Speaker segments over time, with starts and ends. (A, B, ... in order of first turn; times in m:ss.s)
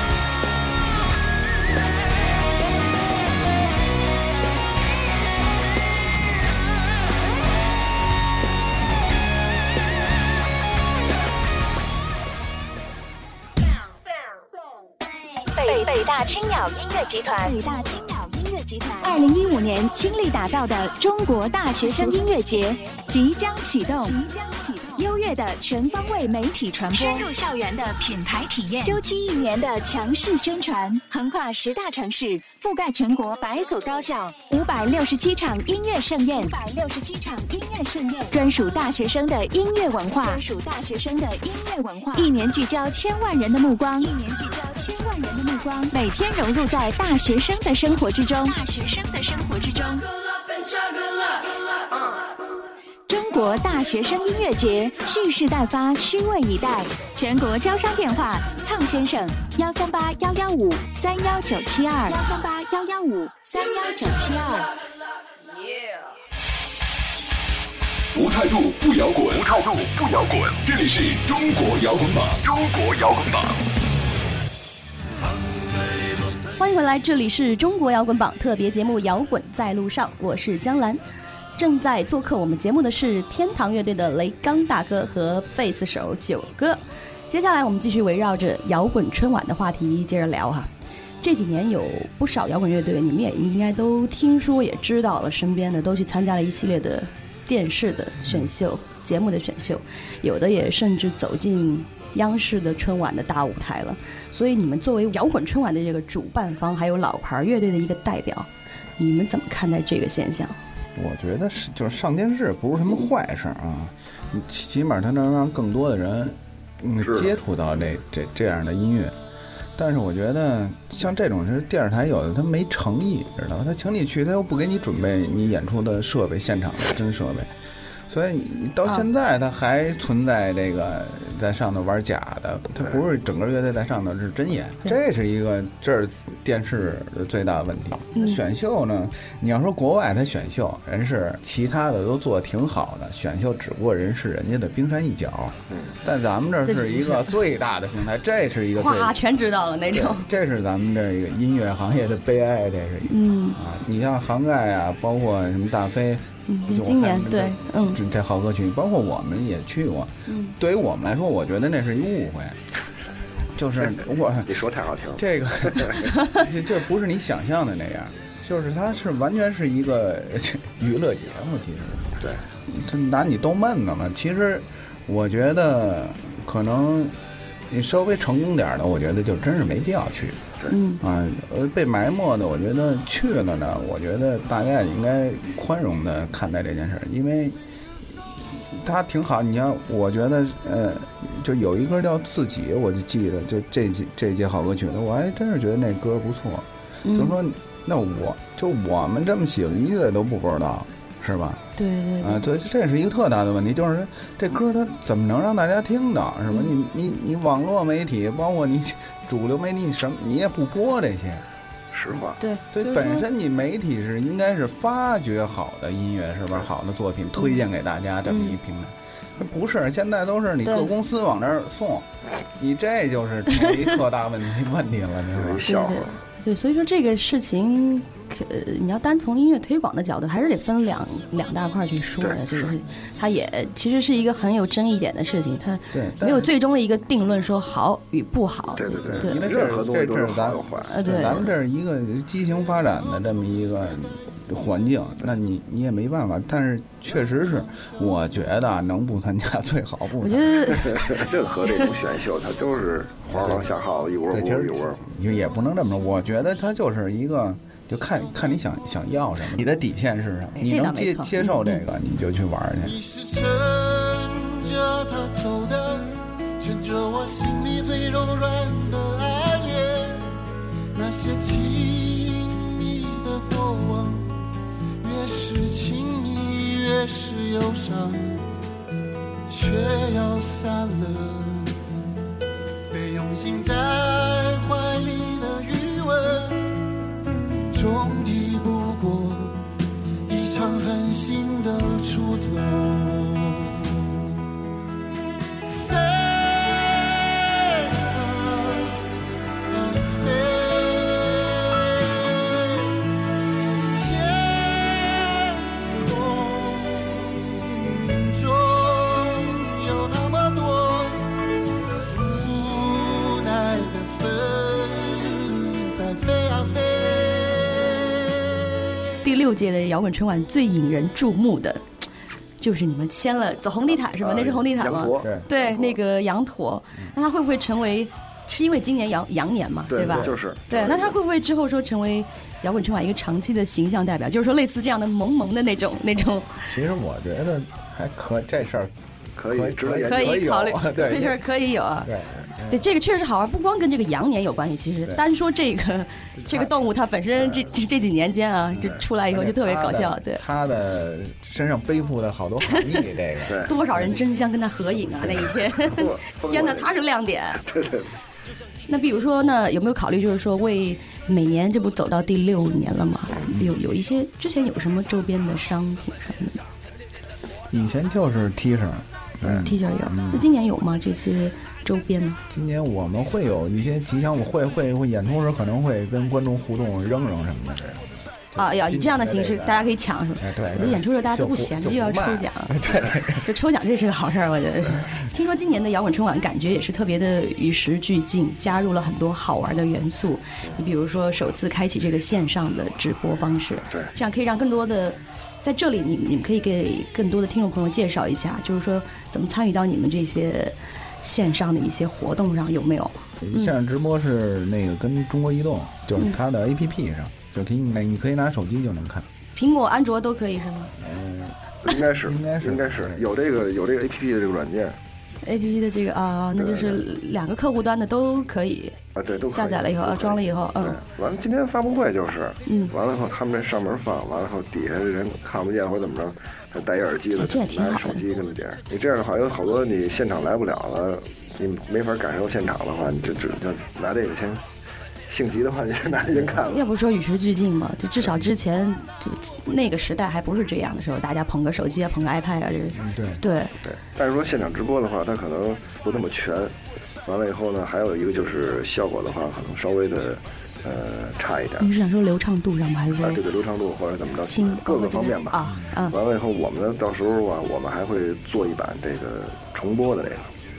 0:15.6-0:17.6 A
0:15.6-0:16.7 B
0:17.3-0:50.0 B
0:53.1-1:04.7 B
1:08.1-1:13.6 C
1:16.6-1:21.0 D
1:21.6-1:30.7 D
1:31.2-1:50.6 D
1:51.0-1:59.2 E
1:57.0-1:57.3 F
1:59.8-2:07.5 E
2:08.1-2:29.2 E
2:18.2-2:18.4 D
2:26.7-2:27.4 D
2:28.8-2:30.3 D
2:29.9-2:42.6 E
2:33.1-2:33.6 D
2:36.5-2:38.0 D
2:40.3-2:40.6 D
2:43.6-2:44.6 E
2:44.5-2:46.0 F
2:45.2-2:57.2 E
2:57.7-3:00.4 E
3:00.7-3:01.0 D
3:01.0-3:07.6 E
3:08.6-3:21.6 E
3:17.0-3:17.4 D
3:21.8-3:22.5 D
3:22.2-3:31.4 E
3:31.9-3:32.4 F
3:32.4-3:33.3 D
3:32.7-3:45.7 E
3:38.3-3:38.6 D
3:45.4-3:46.2 F
3:45.7-3:59.4 D
3:52.2-3:52.8 F
3:55.9-3:56.5 E
3:58.8-4:01.5 F
3:59.1-4:10.8 E
4:00.9-4:01.4 D
4:10.2-4:11.1 D
4:10.7-4:15.0 F
4:14.3-4:23.0 E
4:20.6-4:21.8 D
4:22.8-4:30.3 G
4:30.9-4:34.4 G
4:35.0-4:38.5 G
4:39.5-4:41.8 G
4:42.9-4:46.8 G
4:47.7-4:49.8 G
4:50.3-4:54.1 G
4:55.7-4:59.0 G
4:59.7-5:02.9 G
5:03.7-5:11.4 G
5:11.9-5:18.7 G
5:19.2-5:21.9 D
5:22.6-5:36.6 D
5:24.1-5:26.0 F
5:29.9-5:31.2 F
5:30.0-5:30.4 E
5:36.6-5:38.9 E
5:39.4-5:40.5 F
5:39.5-5:41.4 E
5:40.0-5:42.1 D
5:42.0-5:42.8 E
5:42.7-5:50.4 D
5:46.4-5:46.7 E
5:48.8-5:54.2 E
5:52.6-5:53.1 D
5:53.6-5:57.6 D
5:55.1-5:55.8 E
5:55.9-5:56.9 F
5:57.6-5:58.1 F
5:58.9-6:06.6 D
6:07.7-6:10.4 E
6:09.6-6:12.4 D
6:12.5-6:23.5 E
6:18.6-6:22.8 D
6:23.4-6:43.7 D
6:43.4-6:49.3 E
6:49.6-6:50.9 D
6:51.0-6:51.6 E
6:51.8-6:55.0 F
6:52.2-6:53.2 E
6:55.4-6:59.0 D
6:56.6-6:57.0 F
6:59.2-7:14.6 F
6:59.5-7:01.0 D
7:02.7-7:02.9 D
7:07.4-7:08.2 D
7:15.3-7:16.8 F
7:16.6-7:23.7 D
7:22.9-7:23.4 E
7:23.8-7:26.7 F
7:27.3-7:31.9 F
7:31.8-7:33.4 D
7:33.2-7:40.5 F
7:34.4-7:36.2 D